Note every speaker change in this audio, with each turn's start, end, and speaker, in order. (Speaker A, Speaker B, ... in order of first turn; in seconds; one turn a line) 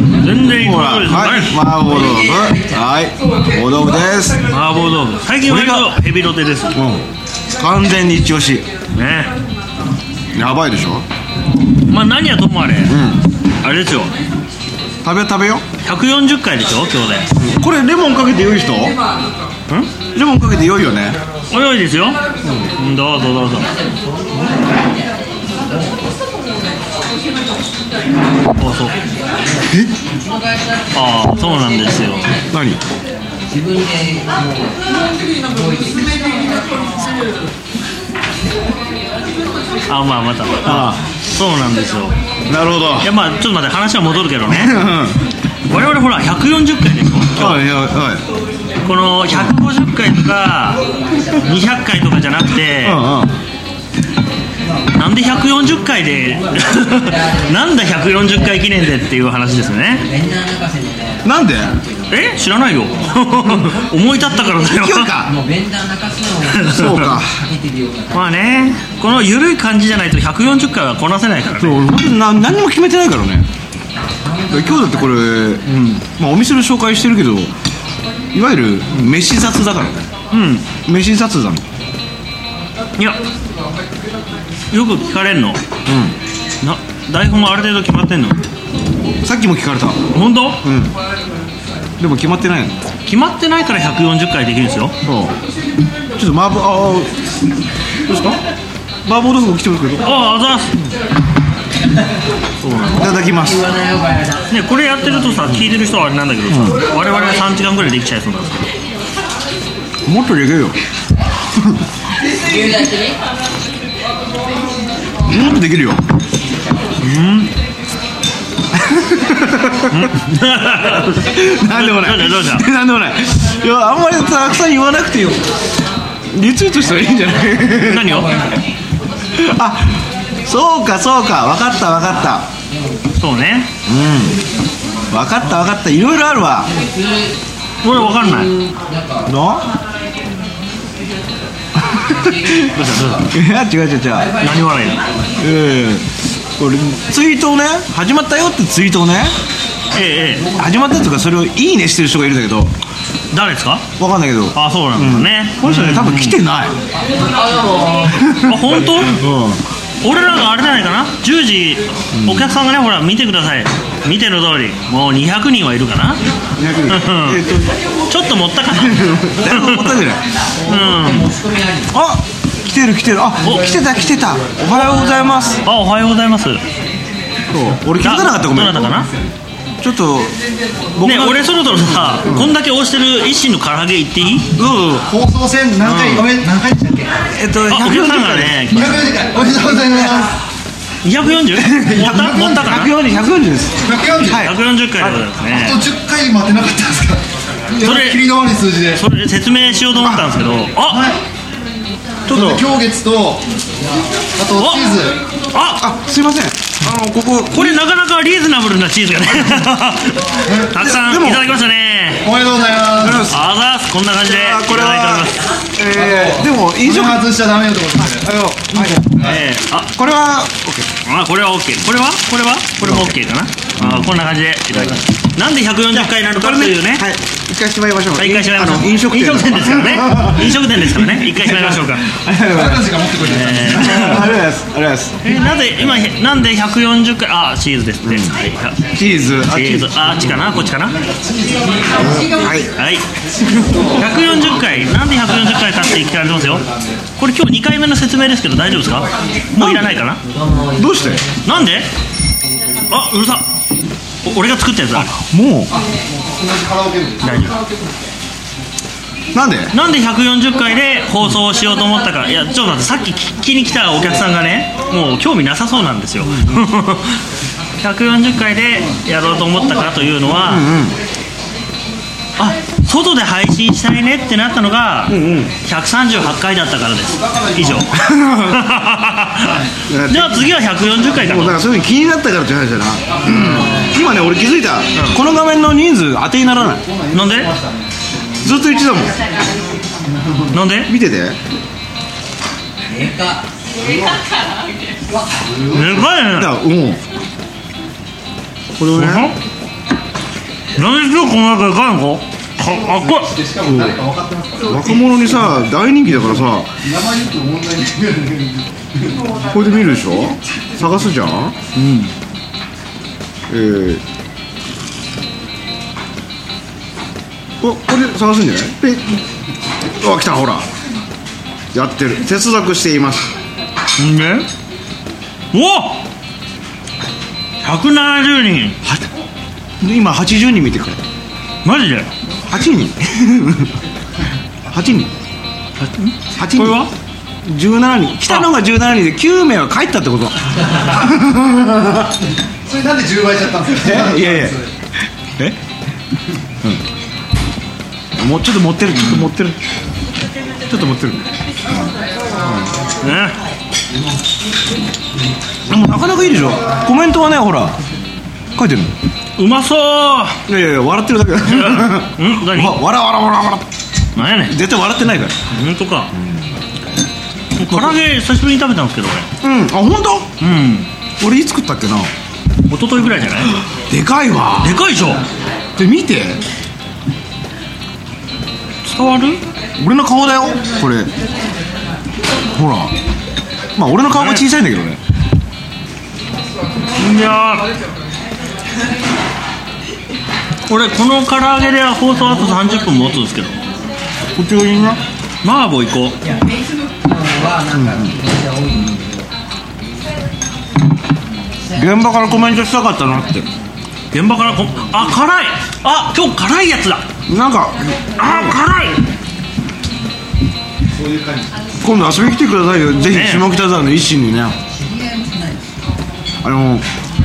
Speaker A: 0.2-1.8
Speaker B: 0.5-4.5
Speaker C: 1.9-2.9
Speaker A: 4.5-6.8
Speaker B: 5.4-6.0
Speaker B: 6.7-8.7
Speaker A: 8.9-9.3
Speaker B: 10.3-11.1
Speaker A: 11.9-13.0
Speaker B: 12.9-13.2
Speaker A: 13.6-14.1
Speaker B: 15.0-15.7
Speaker A: 15.8-17.3
Speaker B: 17.3-19.0
Speaker B: 20.1-21.2
Speaker A: 21.5-22.2
Speaker A: 22.8-23.7
Speaker C: 23.5-27.5
Speaker C: 28.3-32.5
Speaker A: 28.6-29.0
Speaker A: 30.9-32.3
Speaker B: 32.5-32.8
Speaker C: 33.1-37.0
Speaker A: 39.9-42.1
Speaker B: 40.6-41.0
Speaker B: 42.5-43.1
Speaker A: 43.0-44.8
Speaker B: 44.5-45.2
Speaker A: 45.7-47.6
Speaker B: 47.4-48.2
Speaker A: 48.8-50.8
Speaker B: 49.3-49.6
Speaker C: 50.8-51.7
Speaker A: 51.4-53.0
Speaker B: 52.8-53.3
Speaker A: 55.0-60.1
Speaker C: 56.2-58.6
Speaker C: 59.7-62.4
Speaker B: 61.2-61.7
Speaker A: 62.1-65.1
Speaker C: 62.9-63.1
Speaker B: 64.5-65.3
Speaker C: 65.2-68.9
Speaker A: 66.5-67.1
Speaker B: 66.7-67.4
Speaker A: 68.1-71.9
Speaker B: 71.6-73.5
Speaker C: 74.0-75.6
Speaker B: 74.5-77.5
Speaker A: 75.7-76.0
Speaker B: 78.3-80.1
Speaker A: 80.3-80.7
Speaker B: 80.8-81.6
Speaker A: 84.7-85.6
Speaker B: 85.9-86.2
Speaker A: 86.6-88.4
Speaker B: 89.2-91.0
Speaker A: 90.1-90.6
Speaker B: 92.0-92.8
Speaker A: 93.1-94.9
Speaker B: 95.0-95.3
Speaker B: 96.2-97.2
Speaker B: 98.0-98.4
Speaker B: 99.0-100.2
Speaker A: 100.0-100.8
Speaker A: 102.6-103.2
Speaker B: 102.9-103.6
Speaker C: 103.0-105.5
Speaker A: 104.5-108.6
Speaker B: 106.5-106.8
Speaker C: 106.9-107.6
Speaker B: 110.1-110.8
Speaker C: 112.2-113.2
Speaker B: 115.3-116.0
Speaker A: 117.0-117.5
Speaker B: 118.7-120.1
Speaker A: 119.9-122.7
Speaker B: 121.1-125.5
Speaker B: 126.3-128.3
Speaker C: 127.5-128.7
Speaker A: 127.7-128.4
Speaker B: 129.3-132.5
Speaker C: 132.6-133.1
Speaker A: 133.2-133.7
Speaker B: 133.9-134.4
Speaker B: 135.1-136.7
Speaker C: 136.6-139.3
Speaker A: 137.8-138.5
Speaker B: 139.3-139.7
Speaker B: 141.8-144.3
Speaker C: 142.0-143.3
Speaker A: 142.8-143.3
Speaker C: 144.1-145.3
Speaker A: 144.4-145.0
Speaker B: 145.4-149.3
Speaker A: 149.9-150.5
Speaker B: 150.6-152.8
Speaker A: 153.3-153.9
Speaker B: 154.0-156.8
Speaker A: 154.5-156.4
Speaker C: 157.2-158.1
Speaker B: 158.1-159.6
Speaker A: 158.4-159.2
Speaker A: 160.0-166.2
Speaker B: 162.1-162.6
Speaker B: 166.6-167.8
Speaker A: 166.9-167.4
Speaker A: 168.1-170.1
Speaker B: 168.8-170.2
Speaker C: 170.5-171.9
Speaker A: 170.7-171.3
Speaker B: 171.9-175.7
Speaker A: 173.4-173.7
Speaker A: 175.6-176.6
Speaker B: 177.5-179.0
Speaker A: 178.0-179.1
Speaker B: 179.8-180.4
Speaker B: 180.9-182.6
Speaker A: 181.0-184.5
Speaker B: 184.6-185.1
Speaker D: 185.1-187.2
Speaker A: 185.8-186.4
Speaker B: 187.3-188.7
Speaker A: 187.7-189.2
Speaker D: 188.7-190.4
Speaker A: 191.0-192.9
Speaker B: 191.6-195.2
Speaker D: 193.8-194.5
Speaker A: 194.3-195.9
Speaker D: 195.4-199.0
Speaker A: 197.8-198.4
Speaker A: 198.9-201.1
Speaker B: 200.0-200.4
Speaker D: 200.9-201.2
Speaker B: 202.3-202.7
Speaker D: 202.3-203.5
Speaker D: 204.3-205.2
Speaker A: 204.6-205.0
Speaker A: 205.5-205.8
Speaker B: 205.8-207.8
Speaker A: 207.5-212.3
Speaker D: 210.4-210.8
Speaker B: 210.7-211.5
Speaker D: 212.2-213.3
Speaker B: 213.0-213.4
Speaker A: 213.1-215.4
Speaker B: 214.2-217.3
Speaker D: 215.9-219.4
Speaker B: 218.2-219.0
Speaker A: 219.1-219.9
Speaker B: 219.9-220.9
Speaker A: 221.1-227.1
Speaker B: 222.8-223.1
Speaker B: 223.8-224.2
Speaker B: 225.9-233.1
Speaker A: 228.2-232.1
Speaker D: 232.5-234.2
Speaker A: 233.2-234.3
Speaker B: 233.6-235.3
Speaker A: 235.2-241.0
Speaker B: 238.0-238.4
Speaker B: 238.9-240.6
Speaker D: 240.9-242.5
Speaker B: 242.0-242.7
Speaker A: 242.8-243.0
Speaker D: 243.4-247.1
Speaker A: 243.9-246.7
Speaker A: 247.2-250.2
Speaker B: 249.6-250.0
Speaker C: 250.2-251.6
Speaker B: 250.8-251.2
Speaker A: 251.4-251.9
Speaker A: 252.9-253.5
Speaker A: 254.2-255.1
Speaker B: 254.9-255.7
Speaker D: 255.7-257.9
Speaker A: 257.2-257.6
Speaker B: 259.3-259.7
Speaker A: 259.7-267.2
Speaker B: 266.2-266.6
Speaker A: 267.8-270.7
Speaker D: 269.3-270.3
Speaker B: 270.3-271.0
Speaker A: 272.4-281.6
Speaker B: 275.1-275.5
Speaker D: 277.1-278.0
Speaker B: 278.0-278.7
Speaker D: 279.4-279.7
Speaker B: 279.9-286.9
Speaker C: 283.3-283.9
Speaker A: 284.9-285.2
Speaker D: 286.7-288.6
Speaker A: 287.1-287.5
Speaker B: 288.4-289.2
Speaker D: 290.0-290.5
Speaker A: 290.5-290.9
Speaker B: 290.9-291.4
Speaker C: 292.9-293.5
Speaker D: 293.8-294.2
Speaker D: 295.1-296.1
Speaker A: 295.7-296.5
Speaker B: 296.3-297.0
Speaker B: 298.8-299.3
Speaker A: 298.9-299.4
Speaker A: 300.8-303.4
Speaker D: 302.6-305.0
Speaker B: 303.7-304.0
Speaker B: 304.6-306.7
Speaker D: 306.8-309.5
Speaker B: 309.5-311.6
Speaker A: 311.8-312.1
Speaker B: 313.5-314.0
Speaker B: 317.6-319.2
Speaker B: 319.9-320.7
Speaker B: 321.7-323.3
Speaker A: 324.0-324.5
Speaker A: 325.5-326.1
Speaker A: 327.6-328.8
Speaker B: 329.8-331.0
Speaker A: 331.6-332.1
Speaker B: 332.5-333.7
Speaker B: 334.7-335.1
Speaker A: 335.8-336.9
Speaker B: 336.4-336.9
Speaker B: 337.4-342.1
Speaker D: 342.6-344.7
Speaker B: 343.7-344.6
Speaker B: 348.2-349.6
Speaker B: 350.6-351.2
Speaker B: 352.4-352.8
Speaker A: 353.0-353.4
Speaker B: 355.7-357.8
Speaker B: 358.6-358.9
Speaker A: 359.4-360.4
Speaker B: 360.5-363.7
Speaker A: 361.5-362.8
Speaker A: 364.2-364.6
Speaker B: 364.5-365.4
Speaker A: 365.5-366.1
Speaker B: 366.1-366.5
Speaker A: 367.6-369.3
Speaker B: 367.7-368.0
Speaker B: 369.4-370.3
Speaker A: 370.4-370.9
Speaker B: 371.2-372.1
Speaker A: 372.7-373.6
Speaker B: 373.7-374.9
Speaker A: 374.6-375.2
Speaker B: 375.8-376.4
Speaker A: 378.9-379.4
Speaker B: 379.8-381.1
Speaker B: 382.5-382.9
Speaker B: 383.8-385.0
Speaker A: 384.1-384.4
Speaker A: 386.9-387.7
Speaker A: 390.7-393.6
Speaker C: 392.5-392.9
Speaker B: 394.4-395.0
Speaker A: 395.4-396.2
Speaker C: 396.2-399.3
Speaker B: 397.8-398.1
Speaker C: 401.6-402.6
Speaker B: 401.8-403.5
Speaker A: 404.1-407.1
Speaker B: 407.3-408.6
Speaker A: 408.2-409.0
Speaker D: 410.9-411.6
Speaker B: 411.8-414.6
Speaker A: 413.1-413.5
Speaker C: 414.6-415.9
Speaker B: 416.4-416.9